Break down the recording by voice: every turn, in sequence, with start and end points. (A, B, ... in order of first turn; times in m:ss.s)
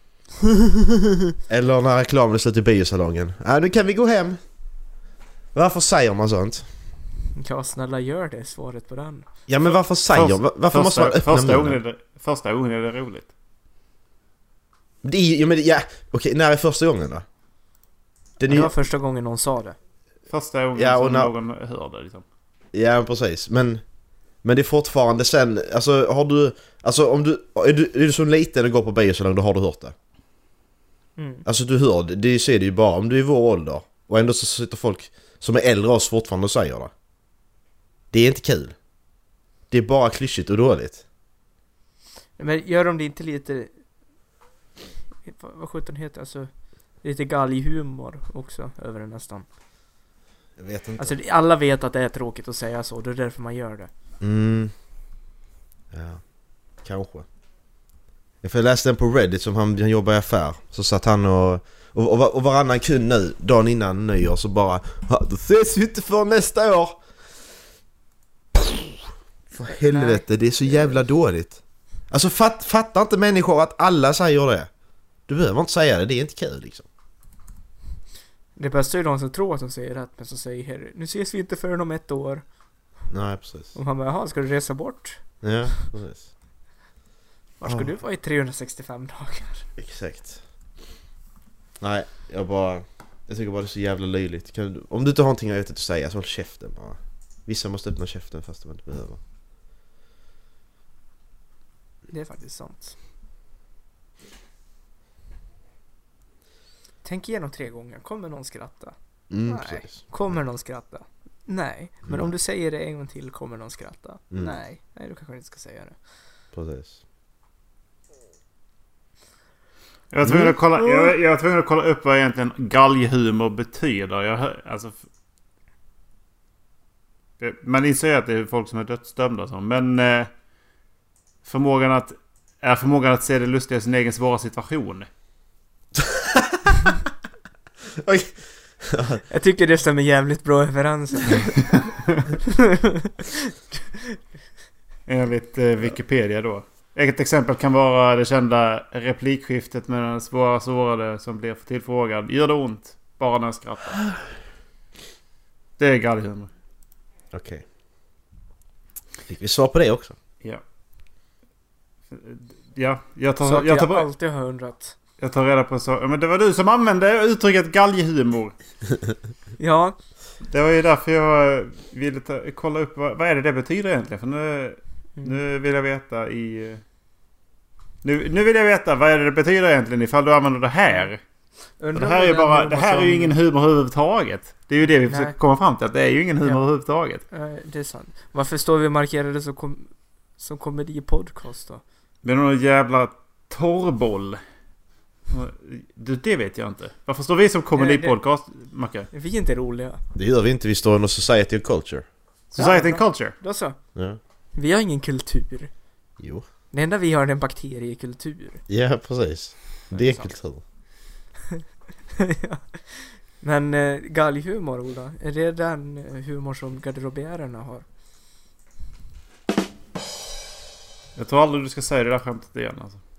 0:01.5-0:04.4 A
0:05.5-0:06.7 A
0:07.4-0:09.3 B
0:09.5-0:11.8 A
0:10.1-0:13.3 C
0:15.0-0:17.2 A
0:18.4-0:18.7 A
0:18.4-0:19.8 B
0:20.3-0:22.2 C
0:20.8-0:21.3 A
0:22.7-0:23.8 A
0:24.4-0:30.0 A
0:31.2-0:31.4 B
0:31.4-0:36.9 A
0:38.1-0:38.8 A
0:39.7-0:41.0 A
0:42.4-0:43.7 B
0:45.2-0:46.5 B
0:47.0-0:49.5 B
0:50.6-0:51.2 A
0:51.0-0:53.9 B
0:54.2-0:54.7 A
0:55.9-0:56.2 A
0:56.8-0:57.3 A
0:58.4-1:07.0 A
1:08.6-1:08.9 A
1:09.5-1:11.6 A
1:09.7-1:10.2 B
1:12.1-1:14.7 A
1:15.3-1:16.9 A
1:18.6-1:22.4 B
1:23.1-1:23.7 A
1:23.7-1:25.2 B
1:25.4-1:26.3 A
1:27.6-1:29.7 B
1:27.6-1:27.9 A
1:29.8-1:30.4 A
1:31.8-1:39.2 A
1:42.1-1:43.0 B
1:47.0-1:56.0 B
1:49.3-1:50.4 A
1:52.1-1:52.3 A
1:54.3-1:54.6 A
1:56.5-1:57.0 A
2:00.1-2:05.0 C
2:00.2-2:00.6 A
2:00.8-2:01.1 B
2:07.4-2:10.3 C
2:11.4-2:15.1 C
2:16.0-2:16.8 A
2:18.0-2:19.2 A
2:19.3-2:21.6 B
2:21.8-2:22.2 C
2:22.7-2:23.2 B
2:25.1-2:34.0 C
2:35.8-2:36.5 C
2:37.3-2:37.6 A
2:39.3-2:40.2 A
2:42.1-2:44.1 C
2:43.4-2:45.0 B
2:45.2-2:48.5 C
2:49.6-2:50.0 B
2:50.5-2:56.8 C
2:58.0-3:01.2 C
3:01.8-3:03.4 B
3:02.0-3:07.2 C
3:05.1-3:05.4 B
3:07.3-3:11.8 B
3:12.2-3:14.4 C
3:15.3-3:19.1 C
3:17.8-3:18.2 B
3:19.1-3:20.0 B
3:20.2-3:22.1 A
3:22.5-3:23.4 C
3:22.6-3:23.8 B
3:24.6-3:25.7 B
3:26.2-3:26.5 A
3:26.7-3:28.6 B
3:28.7-3:30.6 A
3:29.9-3:30.3 B
3:32.2-3:37.8 B
3:41.2-3:43.0 C